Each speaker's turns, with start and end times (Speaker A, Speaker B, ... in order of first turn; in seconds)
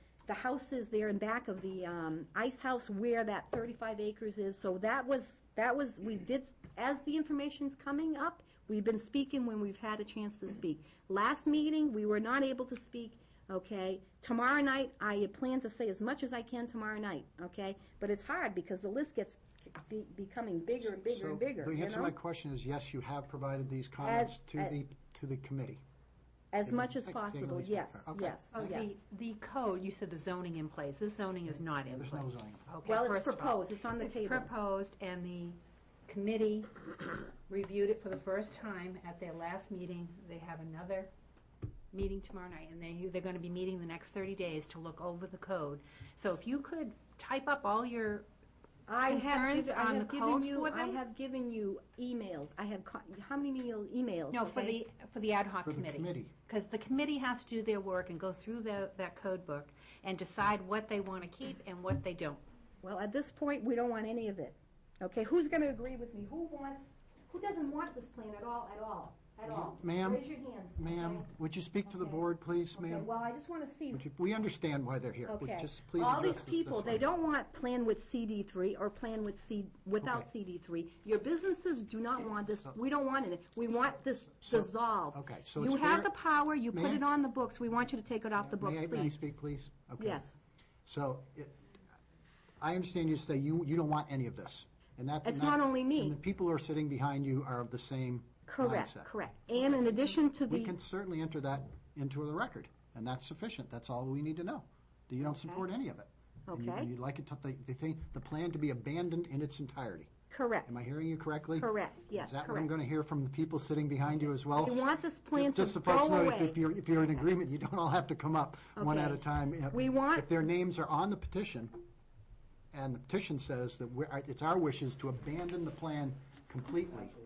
Speaker A: 0.2-22.1, 24.0-24.7, 26.5-28.9, 32.8-34.5, 48.9-54.8, 62.8-71.3, 71.9-72.2, 72.7-74.0, 75.3-89.2, 90.0-90.3, 95.2-96.2, 98.5-100.7, 105.2-105.6, 106.5-106.9, 110.3-110.7, 111.6-112.7, 114.6-116.6, 118.8-120.3
Speaker B: 21.1-25.8, 26.6-28.6, 31.9-32.6, 55.6-56.3, 69.5-73.1, 73.9-77.0, 80.0-80.2, 84.5-86.1, 86.7-87.0, 88.4-90.2, 90.8-91.6, 92.6-99.1, 100.5-110.1, 110.7-121.8, 122.7-127.2
Speaker C: 28.5-41.1, 41.9-48.2, 49.0-51.0, 54.3-62.4